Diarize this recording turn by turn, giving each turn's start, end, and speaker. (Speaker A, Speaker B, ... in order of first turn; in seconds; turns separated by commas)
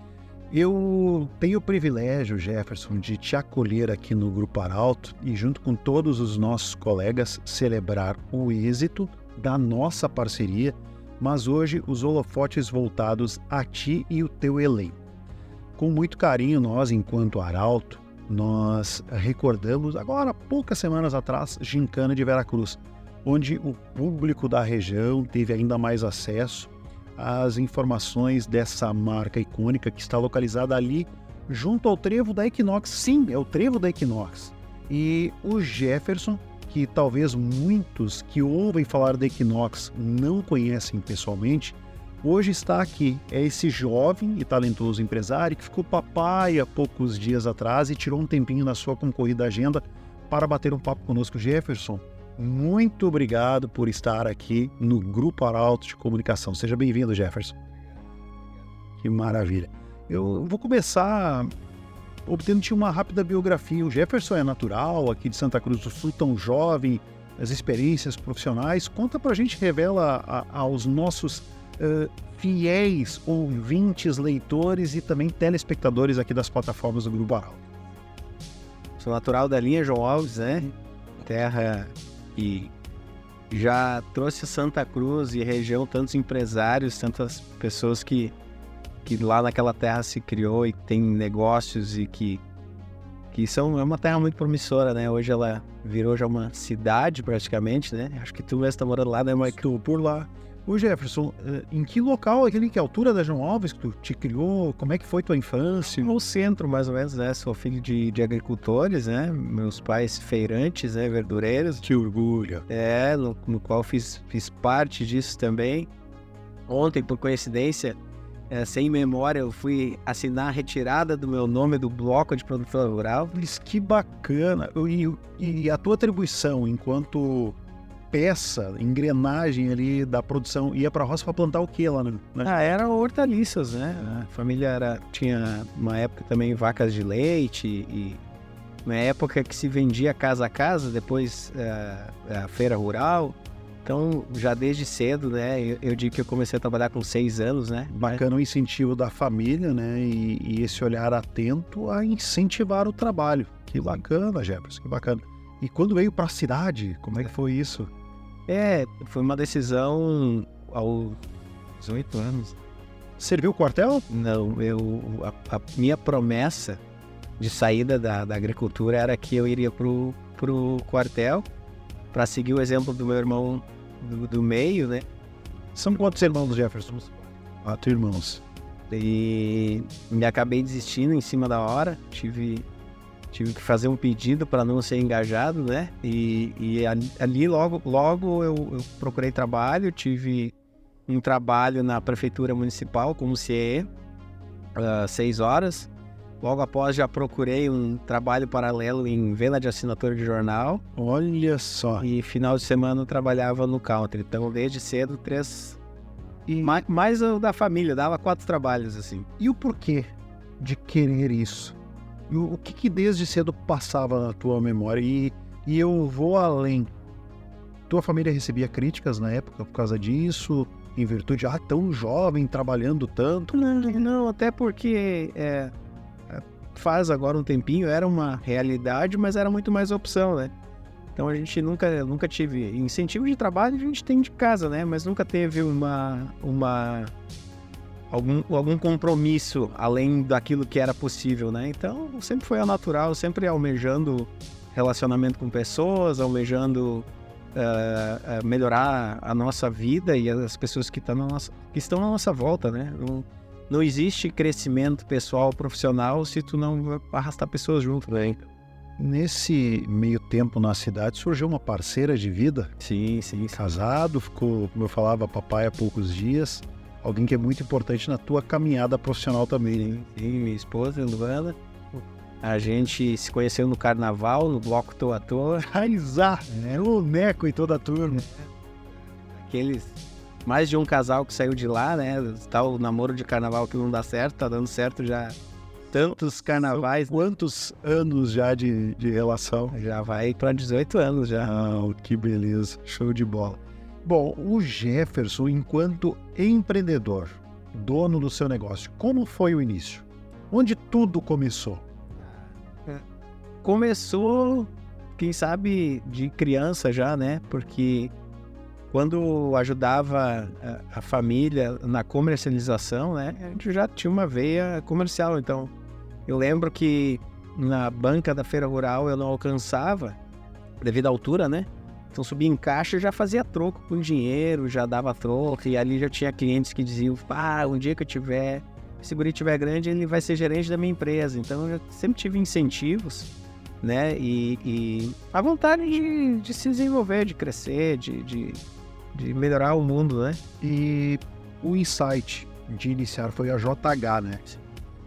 Speaker A: 0.5-15.0, Speaker A: 15.8-57.6, Speaker A: 59.0-61.5, Speaker A: 62.3-77.6, Speaker B: 79.0-82.7, Speaker B: 83.5-88.3, Speaker B: 89.0-92.4, Speaker B: 93.3-99.6, Speaker A: 99.5-106.1, Speaker B: 106.0-111.8, Speaker A: 111.8-112.7, Speaker B: 112.7-115.9, Speaker B: 116.7-118.0, Speaker B: 118.5-123.4, Speaker A: 123.3-127.6, Speaker A: 128.1-132.5, Speaker B: 132.4-138.2, Speaker B: 138.8-148.2, Speaker A: 147.9-157.9, Speaker B: 158.5-161.2, Speaker B: 161.8-162.6, Speaker A: 163.2-164.1, Speaker B: 164.1-166.8, Speaker B: 167.4-171.5, Speaker B: 172.1-175.1, Speaker A: 175.8-178.4, Speaker B: 178.9-182.7, Speaker B: 183.3-190.5, Speaker B: 191.1-193.9, Speaker B: 194.8-195.9, Speaker B: 196.4-200.8, Speaker A: 200.9-202.1, Speaker B: 202.0-205.8, Speaker A: 206.5-206.8, Speaker B: 206.6-209.3, Speaker A: 209.4-211.8, Speaker A: 212.3-216.9, Speaker A: 217.9-223.6, Speaker B: 223.5-225.7, Speaker B: 226.3-230.5, Speaker B: 231.2-237.1, Speaker B: 238.1-258.5, Speaker A: 259.0-262.7, Speaker B: 262.8-263.6, Speaker A: 263.5-270.0, Speaker B: 269.9-275.7, Speaker A: 275.6-278.3, Speaker B: 279.4-285.4, Speaker B: 285.9-287.2, Speaker A: 287.0-289.7, Speaker B: 289.7-291.5, Speaker A: 291.4-301.8, Speaker B: 303.6-308.1, Speaker B: 308.9-315.7, Speaker B: 316.3-320.2, Speaker B: 320.8-333.3, Speaker B: 333.8-338.6, Speaker B: 339.1-340.4, Speaker A: 340.6-344.4